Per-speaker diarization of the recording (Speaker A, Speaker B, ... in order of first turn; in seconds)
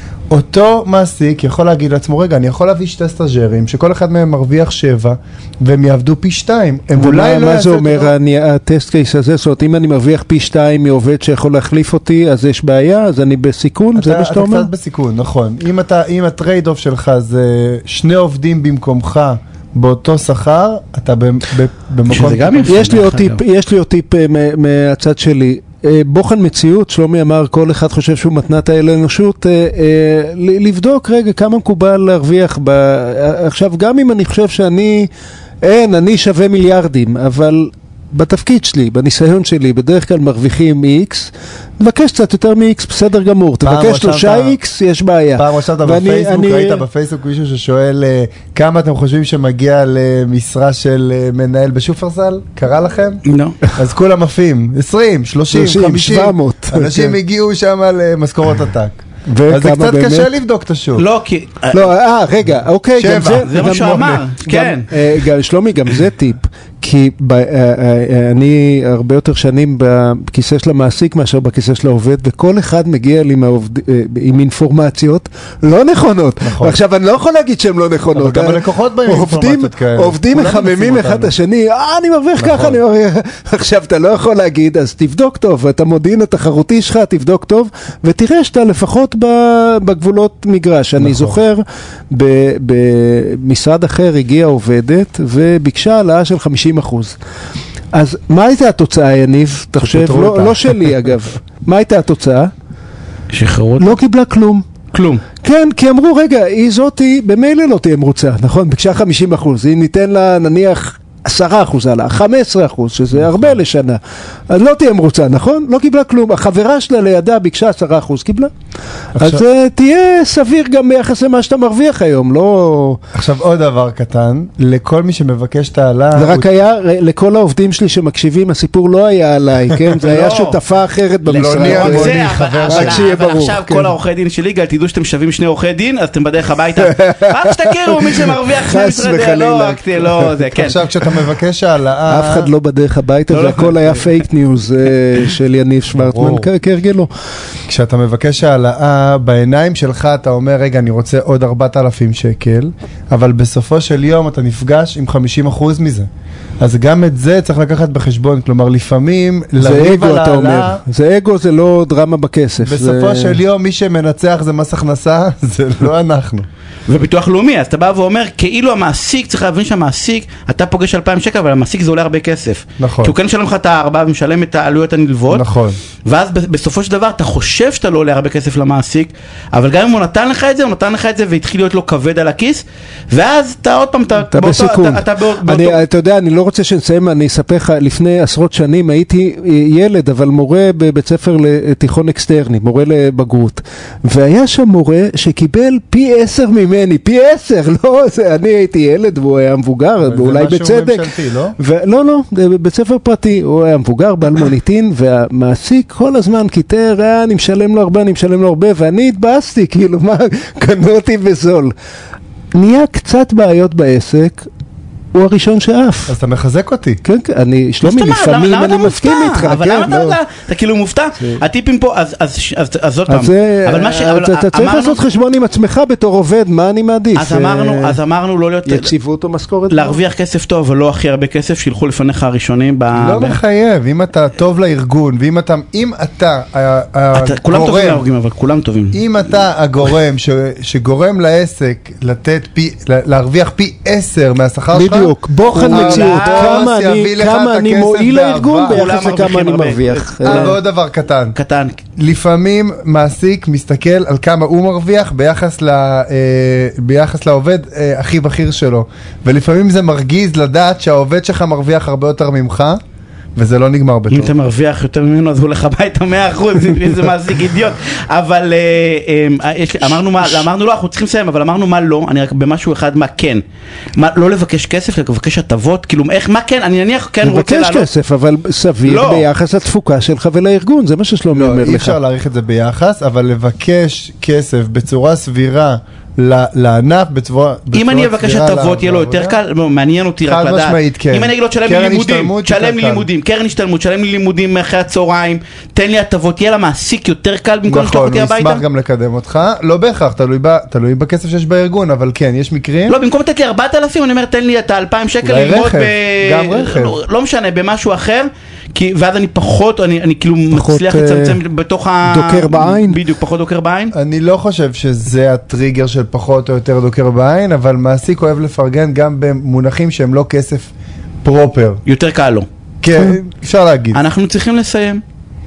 Speaker A: 0.3-8.1, 13.9-22.9, 43.6-44.6, 45.4-53.2, 53.8-61.0, 63.0-64.2, 76.4-76.8, 78.1-81.3, 82.4-82.8, 91.0-91.4, 99.8-101.0, 113.1-113.5, 119.2-119.4, 123.1-126.5, 131.3-133.1, 140.6-142.5, 145.9-146.5, 147.7-156.1, 156.6-160.8, 162.6-166.4, 172.8-173.2, 175.3-175.8, 200.0-201.6, 216.1-217.0, 232.9-238.1, 238.9-248.9, 250.2-251.3, 252.0-262.8, 263.4-264.4, 281.3-289.4, 290.2-293.1, 297.7-303.0, 305.2-307.0, 313.9-320.7, 321.2-321.8, 322.8-324.0
Speaker B: 7.0-14.7, 22.7-35.1, 35.6-46.8, 55.5-57.1, 59.3-60.3, 61.7-97.2, 97.9-102.5, 103.8-104.6, 105.4-118.5, 119.1-123.0, 126.1-133.9, 136.8-141.2, 142.1-147.1, 159.6-163.4, 184.2-211.7, 212.5-214.5, 215.1-216.1, 217.0-220.2, 223.1-228.0, 228.7-230.0, 244.7-250.6, 277.2-282.0, 310.5-311.4, 312.0-313.0
Speaker C: 22.1-23.4, 53.2-53.6, 61.0-61.9, 63.4-64.9, 103.3-104.0, 104.9-105.2, 130.0-130.6, 131.3-140.8, 143.3-144.2, 166.9-175.4, 176.0-185.8, 217.8-225.0, 227.1-228.9, 229.7-233.4, 237.1-239.0, 245.5-246.6, 248.7-250.6, 251.3-251.8, 264.1-273.4, 273.9-277.9, 278.8-279.3, 287.7-298.6, 302.9-313.9, 321.9-322.4, 323.9-325.0